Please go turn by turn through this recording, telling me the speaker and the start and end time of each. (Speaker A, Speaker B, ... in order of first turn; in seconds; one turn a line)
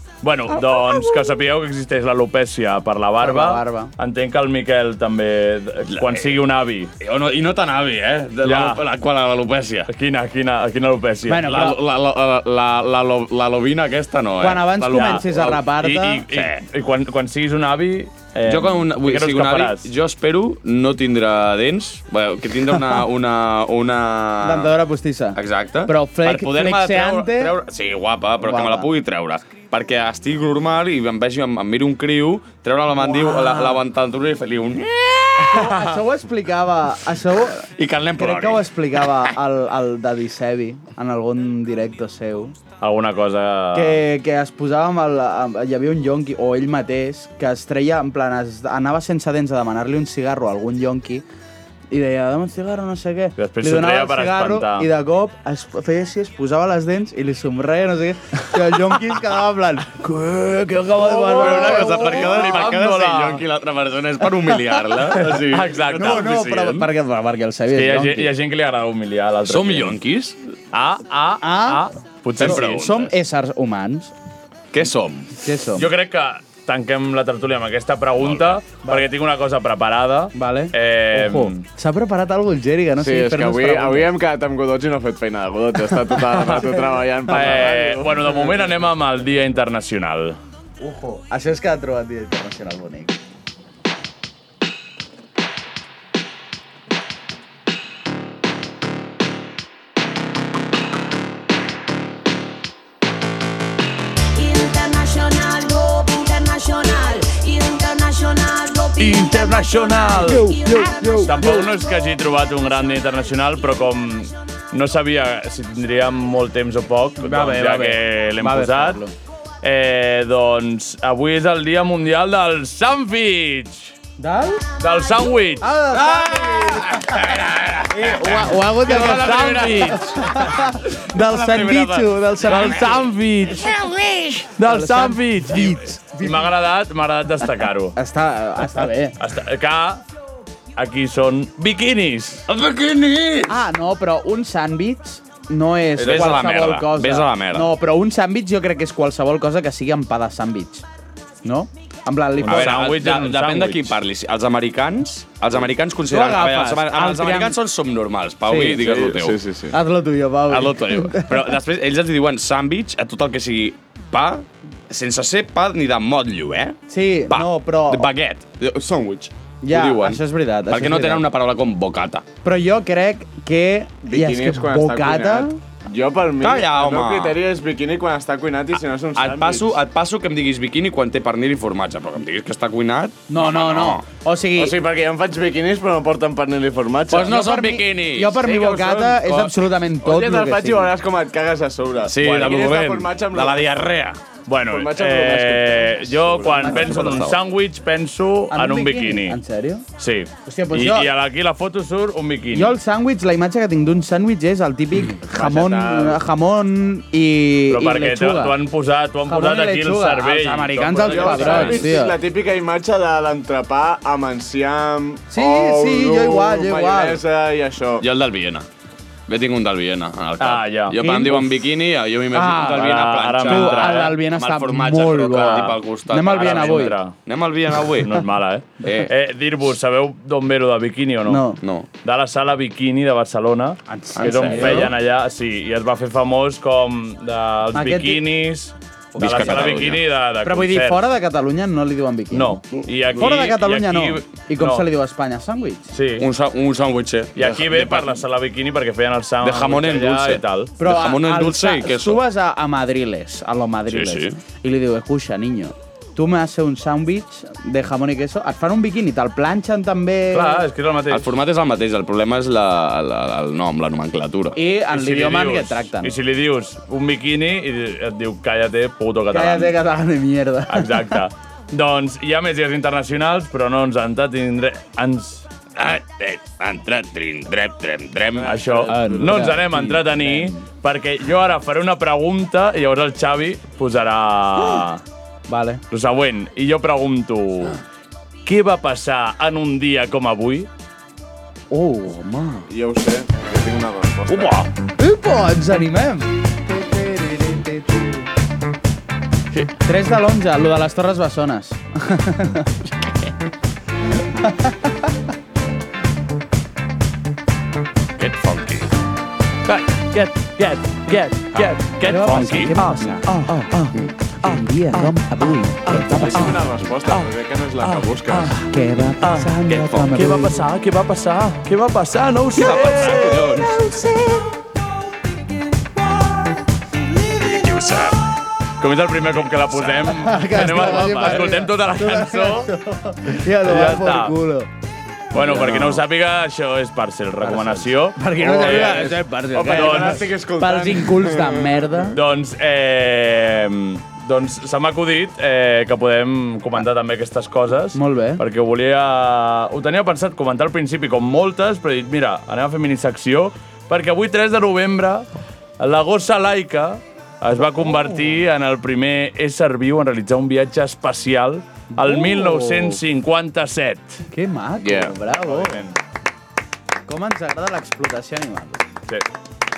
Speaker A: 0.2-6.9
Speaker B: 3.2-3.9
Speaker C: 5.8-6.4
Speaker C: 7.0-9.9
Speaker A: 8.4-8.8
Speaker A: 9.9-11.6
Speaker B: 11.3-11.8
Speaker C: 11.4-15.7
Speaker B: 14.4-16.2
Speaker A: 14.8-19.9
Speaker C: 16.2-16.6
Speaker C: 18.4-24.8
Speaker B: 24.4-27.5
Speaker C: 25.3-36.0
Speaker B: 28.4-28.9
Speaker B: 32.9-33.8
Speaker B: 35.4-42.5
Speaker C: 37.8-39.3
Speaker A: 42.8-44.0
Speaker B: 43.7-51.2
Speaker B: 51.9-62.6
Speaker A: 53.4-54.9
Speaker C: 61.1-66.8
Speaker A: 61.4-63.4
Speaker A: 65.1-66.8
Speaker B: 65.8-68.3
Speaker A: 67.7-70.0
Speaker C: 69.5-70.4
Speaker A: 70.7-73.0
Speaker B: 71.4-71.8
Speaker C: 72.4-73.1
Speaker B: 72.4-74.1
Speaker C: 74.7-75.4
Speaker B: 75.4-75.9
Speaker A: 75.8-81.6
Speaker C: 78.2-78.6
Speaker B: 78.8-79.1
Speaker B: 80.3-84.1
Speaker D: 83.0-88.5
Speaker B: 86.3-87.7
Speaker A: 87.3-90.4
Speaker B: 90.8-93.1
Speaker E: 104.3-111.7
Speaker A: 109.0-110.5
Speaker B: 110.2-111.7
Speaker A: 111.2-119.0
Speaker B: 117.2-119.1
Speaker A: 119.6-123.9
Speaker B: 124.2-124.7
Speaker A: 124.8-125.7
Speaker B: 125.6-127.2
Speaker C: 125.9-132.9
Speaker B: 127.9-133.1
Speaker A: 128.8-130.2
Speaker A: 132.4-133.7
Speaker C: 133.5-134.5
Speaker A: 134.6-137.9
Speaker B: 134.6-136.5
Speaker B: 137.9-139.2
Speaker A: 139.2-140.0
Speaker A: 140.8-142.4
Speaker C: 142.5-143.6
Speaker B: 143.5-150.8
Speaker C: 145.9-147.7
Speaker B: 151.4-152.9
Speaker A: 152.4-153.9
Speaker C: 152.4-159.4
Speaker B: 156.0-157.6
Speaker B: 158.4-158.8
Speaker D: 158.8-159.8
Speaker B: 159.7-161.5
Speaker C: 160.5-172.2
Speaker B: 166.9-168.1
Speaker B: 169.6-171.2
Speaker B: 172.4-175.6
Speaker D: 174.0-179.7
Speaker C: 176.4-177.4
Speaker C: 179.1-184.1
Speaker B: 183.3-184.8
Speaker D: 184.6-187.3
Speaker C: 187.1-188.5
Speaker B: 187.1-190.9
Speaker D: 188.4-193.6
Speaker C: 192.0-194.2
Speaker A: 194.5-199.4
Speaker D: 194.7-197.0
Speaker C: 196.5-197.4
Speaker B: 196.6-197.3
Speaker B: 198.5-199.8
Speaker A: 200.0-202.7
Speaker B: 200.4-201.1
Speaker B: 202.5-208.6
Speaker D: 205.2-206.2
Speaker A: 207.7-211.8
Speaker B: 209.3-212.2
Speaker D: 211.0-218.0
Speaker C: 211.3-211.8
Speaker B: 215.3-217.2
Speaker C: 218.0-218.7
Speaker C: 219.3-228.2
Speaker A: 220.4-221.3
Speaker B: 221.0-221.5
Speaker B: 222.3-227.0
Speaker A: 222.7-224.2
Speaker A: 226.3-227.1
Speaker A: 228.0-231.4
Speaker C: 228.8-229.1
Speaker B: 231.3-231.6
Speaker C: 231.6-231.9
Speaker A: 232.0-241.0
Speaker B: 233.9-234.9
Speaker C: 234.1-234.9
Speaker B: 237.7-238.2
Speaker C: 239.2-240.0
Speaker B: 239.2-239.8
Speaker B: 240.4-245.8
Speaker A: 242.3-244.8
Speaker A: 245.9-246.3
Speaker C: 246.2-248.2
Speaker A: 247.3-250.7
Speaker C: 249.4-252.2
Speaker B: 250.8-260.6
Speaker C: 253.9-254.4
Speaker A: 260.3-261.3
Speaker C: 261.1-264.6
Speaker B: 264.6-266.1
Speaker A: 264.9-269.7
Speaker B: 269.3-271.1
Speaker A: 270.7-275.4
Speaker C: 275.8-278.6
Speaker A: 278.4-285.0
Speaker D: 278.6-279.5
Speaker B: 278.9-280.6
Speaker B: 285.5-285.8
Speaker A: 285.9-287.8
Speaker A: 288.4-290.7
Speaker B: 291.7-292.6
Speaker D: 292.7-294.6
Speaker C: 294.3-294.7
Speaker B: 295.0-298.1
Speaker B: 299.8-302.7
Speaker B: 304.4-304.8
Speaker C: 308.2-308.9
Speaker A: 309.6-313.3
Speaker C: 311.5-312.7
Speaker B: 312.0-316.7
Speaker D: 316.0-318.6
Speaker A: 317.9-318.6
Speaker B: 318.7-320.6
Speaker A: 319.2-319.5
Speaker C: 319.6-320.3
Speaker A: 320.1-323.4
Speaker C: 322.5-323.9
Speaker B: 322.7-324.4
Speaker C: 327.3-328.3
Speaker A: 328.8-332.7
Speaker B: 330.0-334.7
Speaker A: 333.6-334.3
Speaker A: 335.3-340.3
Speaker B: 335.3-336.0
Speaker B: 337.4-342.2
Speaker D: 338.4-342.0
Speaker A: 342.1-355.3
Speaker B: 347.9-348.4
Speaker A: 355.8-364.2
Speaker B: 357.6-358.4
Speaker B: 361.9-363.0
Speaker B: 364.3-365.8
Speaker D: 364.8-365.1
Speaker A: 365.4-366.0
Speaker B: 367.1-368.8